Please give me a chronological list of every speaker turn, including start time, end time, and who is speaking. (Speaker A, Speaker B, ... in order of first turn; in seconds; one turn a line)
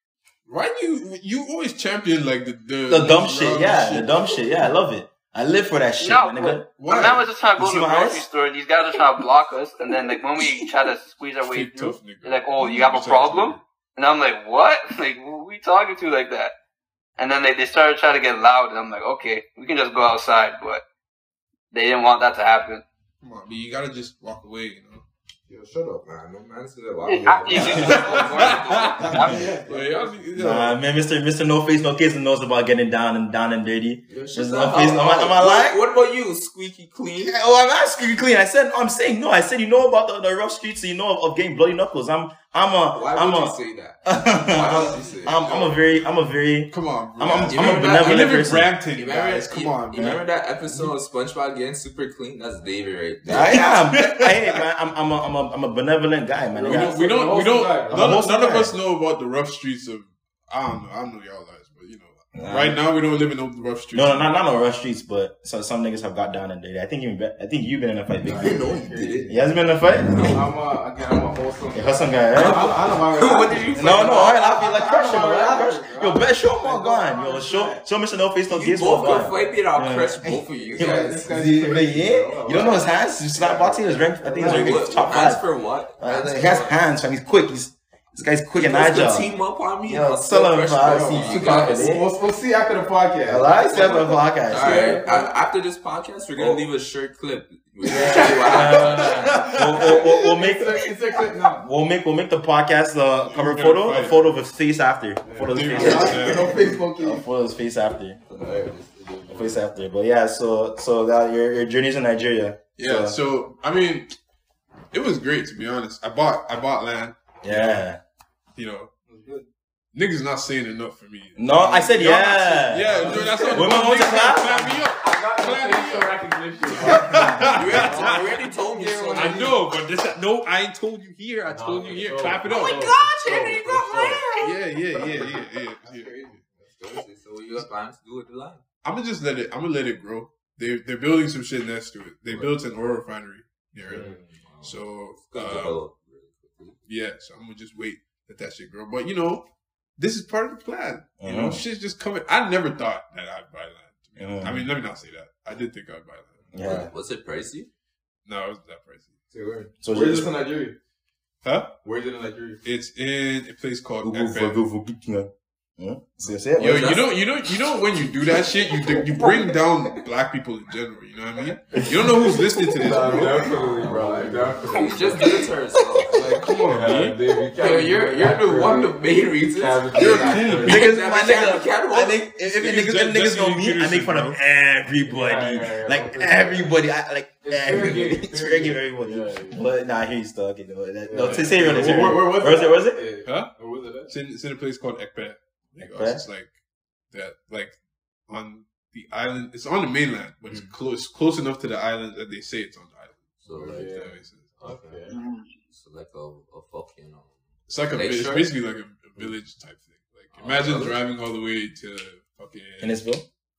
Speaker A: 0.5-4.4
Speaker B: 2.9-6.9
Speaker C: 6.0-16.5
Speaker A: 6.7-7.2
Speaker B: 7.6-8.2
Speaker A: 11.4-13.6
Speaker C: 17.2-20.8
Speaker C: 21.7-22.8
Speaker A: 23.2-25.0
Speaker D: 25.5-30.2
Speaker C: 27.1-29.5
Speaker E: 27.5-28.6
Speaker B: 27.5-28.0
Speaker A: 27.6-30.8
Speaker E: 29.3-30.2
Speaker B: 30.3-35.8
Speaker D: 34.1-37.4
Speaker B: 37.2-48.7
Speaker D: 42.9-45.8
Speaker E: 44.6-45.3
Speaker A: 46.7-50.9
Speaker D: 47.5-53.8
Speaker B: 50.0-50.2
Speaker B: 53.3-57.0
Speaker A: 53.9-54.5
Speaker E: 56.5-58.2
Speaker A: 56.6-64.3
Speaker F: 57.2-57.9
Speaker B: 57.9-58.7
Speaker B: 62.3-62.8
Speaker B: 63.9-68.7
Speaker E: 68.2-69.5
Speaker D: 68.3-69.3
Speaker B: 69.3-70.3
Speaker D: 70.1-70.4
Speaker E: 70.2-77.8
Speaker B: 71.7-72.7
Speaker D: 72.3-75.1
Speaker B: 73.7-85.4
Speaker D: 78.5-81.3
Speaker E: 80.2-85.1
Speaker D: 84.4-86.8
Speaker B: 86.0-92.1
Speaker D: 88.5-91.9
Speaker E: 90.8-95.3
Speaker B: 93.3-95.0
Speaker D: 94.5-99.5
Speaker E: 97.8-101.7
Speaker B: 97.9-100.8
Speaker A: 99.0-99.8
Speaker B: 101.6-108.2
Speaker A: 103.2-104.3
Speaker E: 105.2-107.2
Speaker A: 105.5-106.6
Speaker D: 108.3-109.6
Speaker B: 109.3-113.2
Speaker A: 112.8-114.1
Speaker A: 114.9-117.9
Speaker B: 117.4-118.0
Speaker A: 118.5-118.9
Speaker E: 119.1-119.5
Speaker A: 119.9-128.5
Speaker B: 121.3-124.7
Speaker F: 122.9-123.6
Speaker E: 122.9-124.0
Speaker F: 125.0-127.8
Speaker D: 127.5-129.5
Speaker E: 127.6-129.6
Speaker A: 129.1-132.9
Speaker F: 131.4-134.2
Speaker D: 132.8-134.4
Speaker A: 134.4-136.4
Speaker E: 135.0-137.0
Speaker D: 136.8-138.6
Speaker A: 138.8-144.1
Speaker F: 143.8-144.3
Speaker D: 143.9-146.8
Speaker A: 144.6-145.8
Speaker A: 146.8-156.6
Speaker B: 151.2-151.6
Speaker B: 154.2-154.7
Speaker B: 156.5-156.9
Speaker D: 156.5-157.7
Speaker E: 156.6-156.9
Speaker A: 158.2-159.1
Speaker E: 159.3-160.8
Speaker B: 159.8-160.3
Speaker A: 161.4-161.8
Speaker E: 161.8-162.6
Speaker A: 162.6-164.6
Speaker B: 164.0-167.0
Speaker D: 166.6-167.2
Speaker A: 166.6-173.5
Speaker F: 172.7-175.5
Speaker D: 173.4-176.5
Speaker E: 173.7-175.0
Speaker A: 176.1-177.2
Speaker F: 176.6-180.9
Speaker D: 177.5-182.2
Speaker A: 179.9-180.8
Speaker B: 180.5-193.0
Speaker A: 182.4-184.4
Speaker F: 185.0-186.7
Speaker F: 187.4-189.6
Speaker F: 191.0-191.8
Speaker E: 191.2-194.1
Speaker A: 191.4-192.2
Speaker A: 193.2-193.5
Speaker A: 194.1-196.6
Speaker B: 195.8-196.2
Speaker A: 197.1-197.8
Speaker A: 198.3-204.6
Speaker E: 200.4-200.7
Speaker D: 203.4-203.9
Speaker E: 203.5-203.8
Speaker F: 203.5-205.2
Speaker E: 204.7-204.9
Speaker C: 205.1-205.5
Speaker D: 205.7-208.5
Speaker A: 207.7-213.1
Speaker D: 210.3-211.0
Speaker B: 212.8-213.2